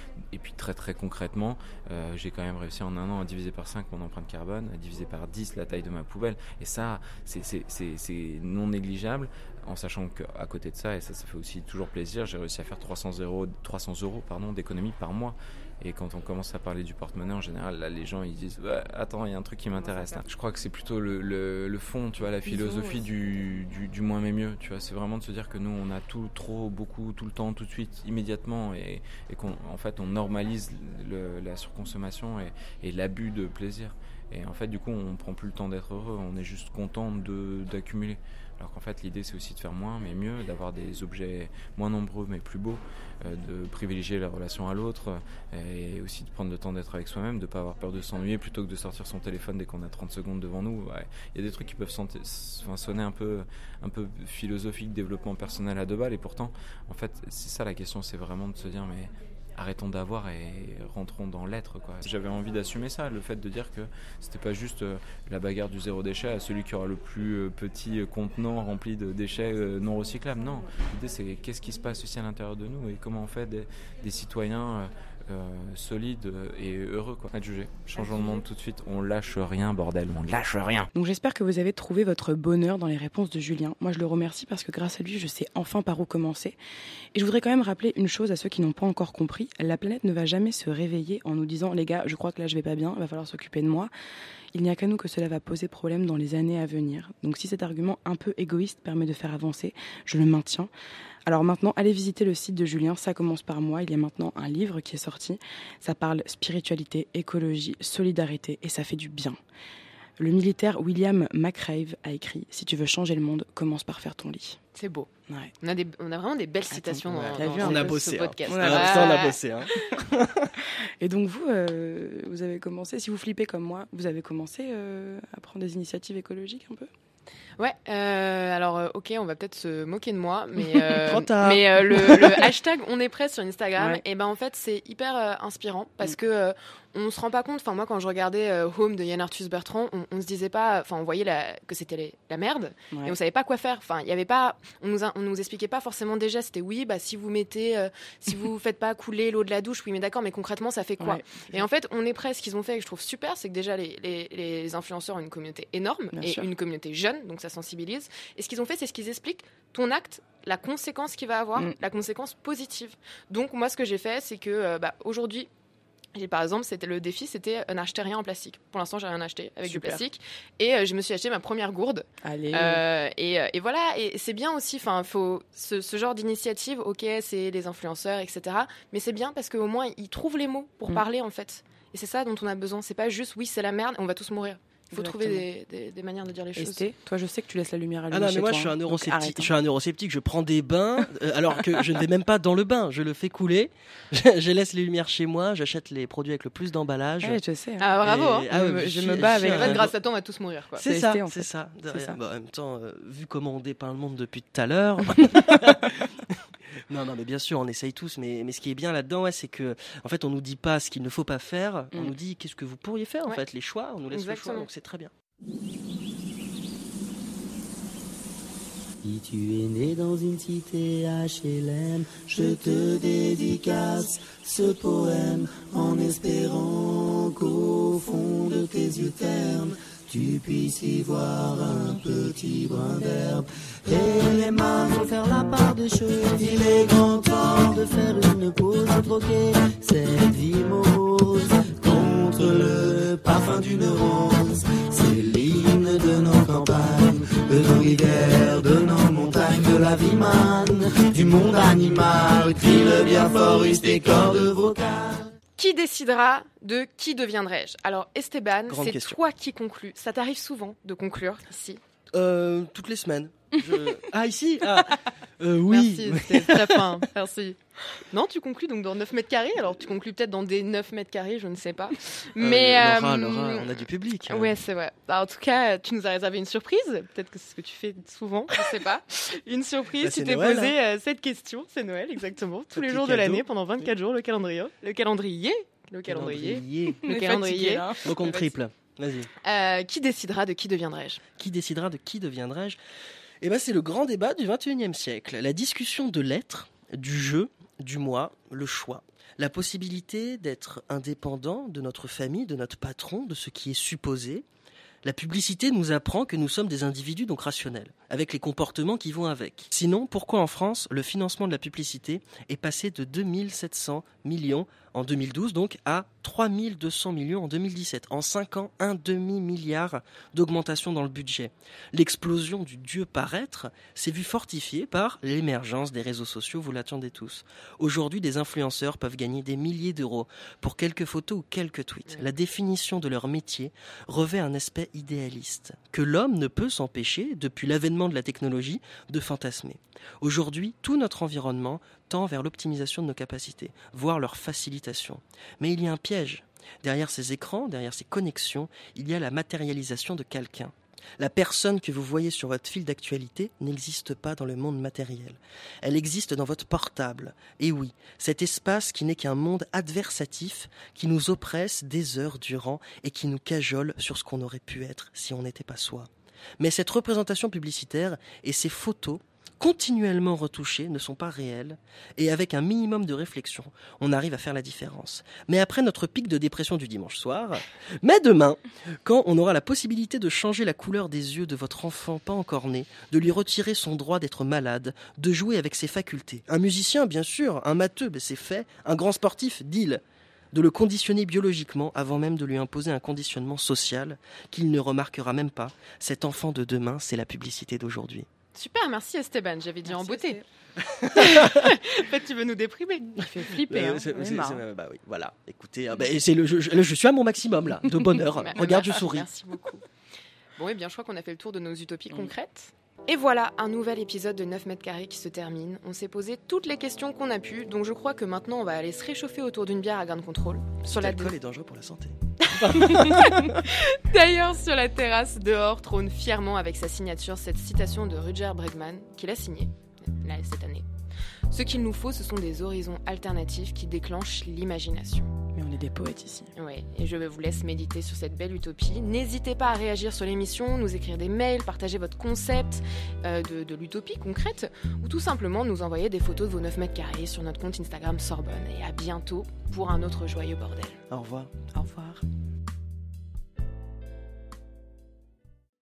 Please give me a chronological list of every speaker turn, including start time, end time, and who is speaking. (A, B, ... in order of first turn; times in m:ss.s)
0:00.3-1:20.9 A
1:18.0-1:18.4 B
1:20.9-1:26.6 B
1:27.1-1:33.9 B
1:34.5-1:40.7 B
1:41.2-1:49.4 B
1:50.2-1:54.6 B
1:54.7-1:55.1 C
1:55.6-1:59.4 C
1:56.7-1:59.3 B
1:57.1-2:00.5 D
2:01.0-2:06.9 B
2:07.6-2:45.5 C
2:11.0-2:12.5 D
2:13.8-2:14.0 B
2:31.0-2:31.6 B
2:36.2-2:36.5 B
2:46.1-3:06.8 C
2:49.6-2:50.0 B
2:52.2-2:52.8 B
3:04.9-3:05.4 B
3:06.6-3:09.5 B
3:08.1-3:17.4 D
3:17.2-3:17.9 B
3:17.8-3:18.5 C
3:18.0-3:19.9 D
3:18.5-3:19.9 B
3:19.1-3:20.9 C
3:20.8-3:26.3 D
3:20.8-3:22.2 B
3:26.9-3:35.1 D
3:34.1-3:34.7 C
3:39.0-4:15.2 E
4:15.6-4:21.8 C
4:18.7-4:19.2 D
4:22.1-4:26.8 D
4:25.7-4:27.6 C
4:28.1-4:48.5 C
4:32.4-4:34.5 D
4:40.0-4:40.7 D
4:42.7-4:43.8 D
4:46.0-4:47.0 D
4:47.0-4:48.0 B
4:48.0-4:49.3 D
4:49.4-4:51.2 C
4:51.4-4:52.8 D
4:53.4-5:04.4 D
5:05.0-6:38.3 D
6:38.5-6:40.4 C
6:39.8-6:40.4 B
6:40.9-6:41.7 D
6:41.2-6:43.6 C
6:43.2-6:44.6 B
6:43.5-6:49.3 D
6:48.4-6:49.8 C
6:50.6-7:01.3 C
7:00.8-7:03.6 D
7:02.7-7:10.8 C
7:11.5-7:15.3 C
7:15.5-7:16.5 B
7:16.6-7:31.0 C
7:31.1-7:31.5 D
7:31.7-7:32.2 B